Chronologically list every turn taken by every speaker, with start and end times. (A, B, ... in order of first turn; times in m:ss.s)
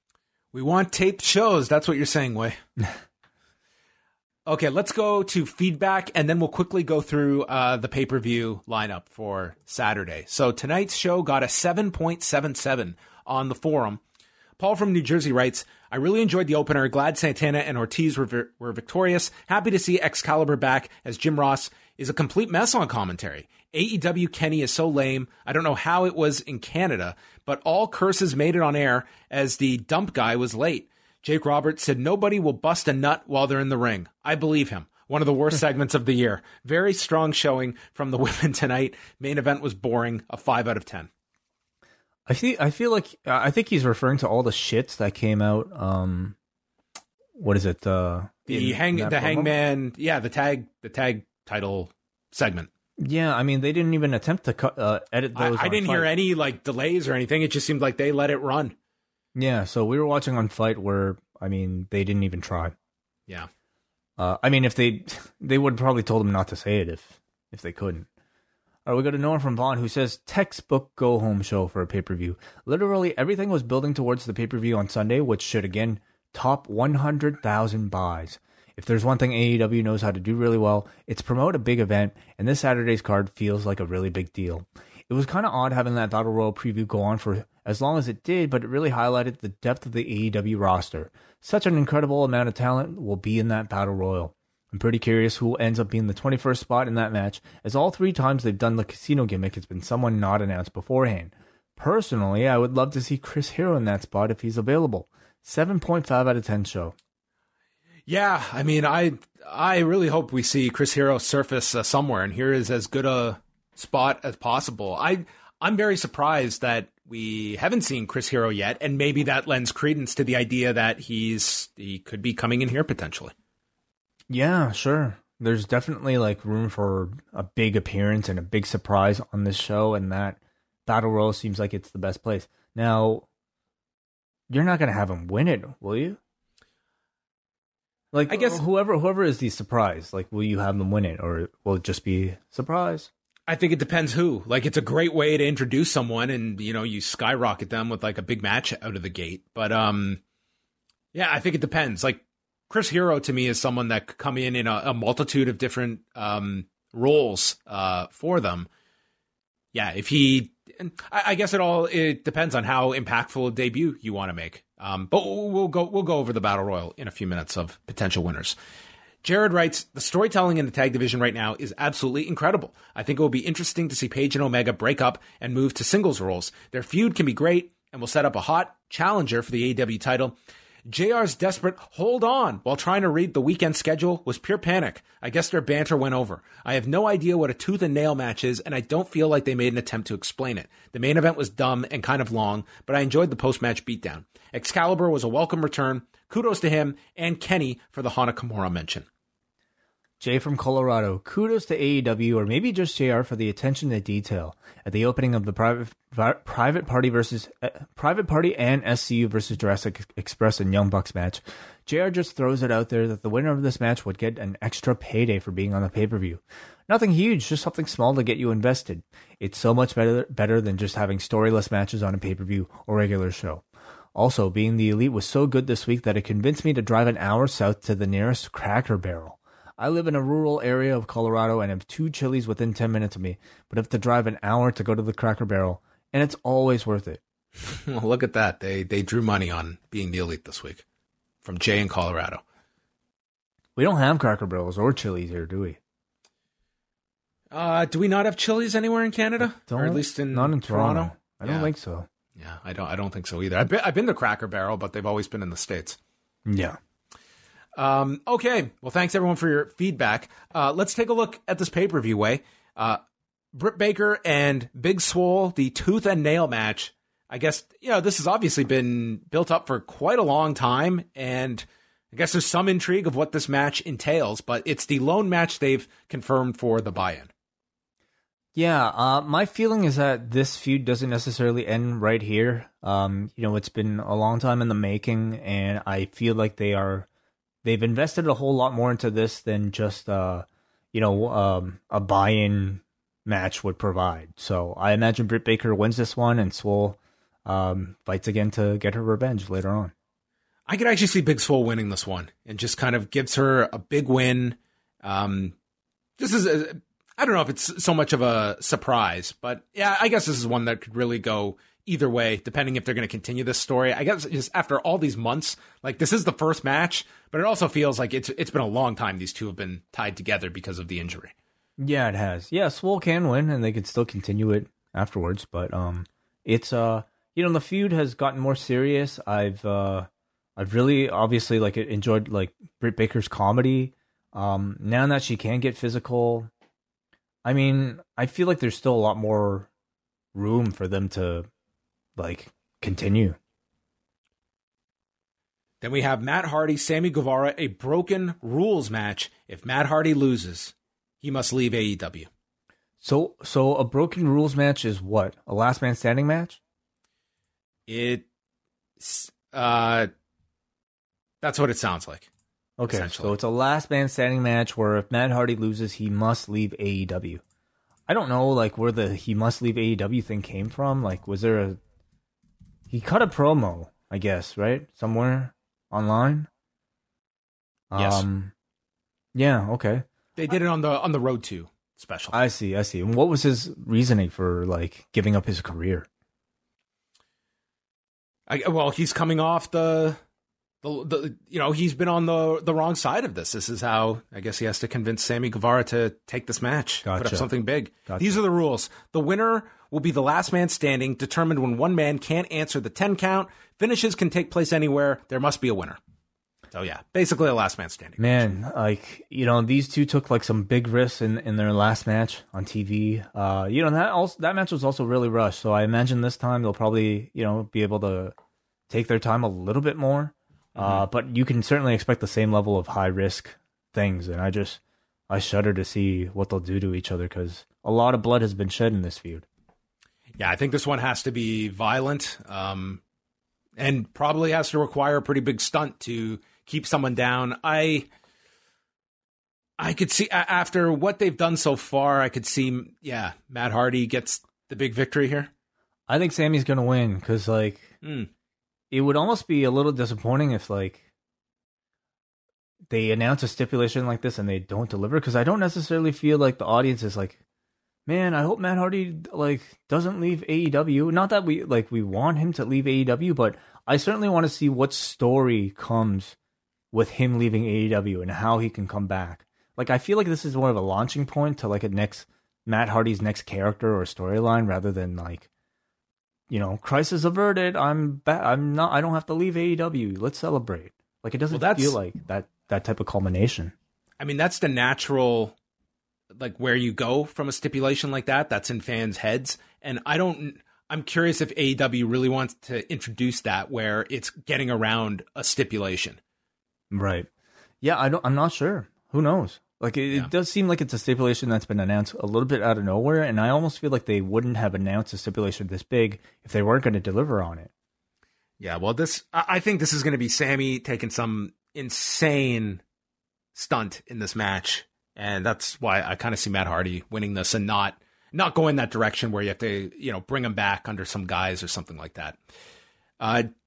0:00.5-0:02.6 A
0:04.4-0:14.0 A
0:14.6-0:41.1 A
0:42.3-0:46.4 B
0:47.4-0:49.5 B
0:48.5-0:52.7 A
0:53.0-0:56.1 B
0:55.3-0:58.7 A
0:59.3-1:02.7 B
1:04.2-1:08.1 B
1:08.8-1:47.0 B
1:48.1-2:03.3 A
2:04.3-2:13.3 B
2:14.5-2:16.2 B
2:18.1-2:23.1 B
2:18.3-2:18.6 A
2:23.5-2:30.2 A
2:31.1-2:38.7 A
2:39.7-2:48.6 A
2:49.2-3:19.0 A
3:20.2-3:57.2 B
3:57.6-4:00.8 A
4:01.4-4:02.4 A
4:03.8-4:05.8 B
4:07.5-4:11.7 A
4:09.4-4:12.1 B
4:12.4-4:16.0 A
4:16.5-4:16.8 B
4:17.7-4:23.0 A
4:23.5-4:37.3 A
4:38.5-4:47.1 B
4:47.6-4:59.9 B
5:00.6-5:05.6 A
5:06.2-5:21.3 A
5:21.8-5:36.5 B
5:37.4-5:39.7 B
5:40.3-5:41.5 B
5:42.2-5:43.4 B
5:45.8-5:52.3 A
5:53.0-5:56.6 B
5:57.9-5:58.2 A
5:59.0-6:00.1 A
6:01.4-6:02.3 A
6:02.8-6:07.4 B
6:02.9-6:03.4 A
6:08.1-6:11.8 B
6:12.9-6:16.5 B
6:17.9-6:18.5 B
6:18.0-6:18.2 A
6:19.3-6:20.0 B
6:20.4-6:22.4 A
6:22.3-6:26.1 B
6:28.5-6:30.2 A
6:30.8-6:46.0 A
6:37.0-6:37.5 B
6:38.1-6:38.4 B
6:46.7-6:48.5 A
6:48.2-6:58.3 B
6:58.9-7:09.5 B
7:00.7-7:01.0 A
7:10.4-7:13.0 A
7:13.8-7:18.1 A
7:19.8-7:25.5 A
7:26.1-7:28.0 B
7:28.0-7:28.3 A
7:28.9-7:31.0 B
7:32.9-7:37.4 B
7:38.1-7:46.4 B
7:46.9-7:55.5 B
7:56.5-8:03.7 B
8:01.5-8:02.0 A
8:04.2-8:05.5 A
8:06.3-8:16.2 A
8:16.9-8:17.3 B
8:17.8-8:27.7 B
8:28.6-8:32.8 A
8:33.5-8:42.4 A
8:43.2-8:43.5 A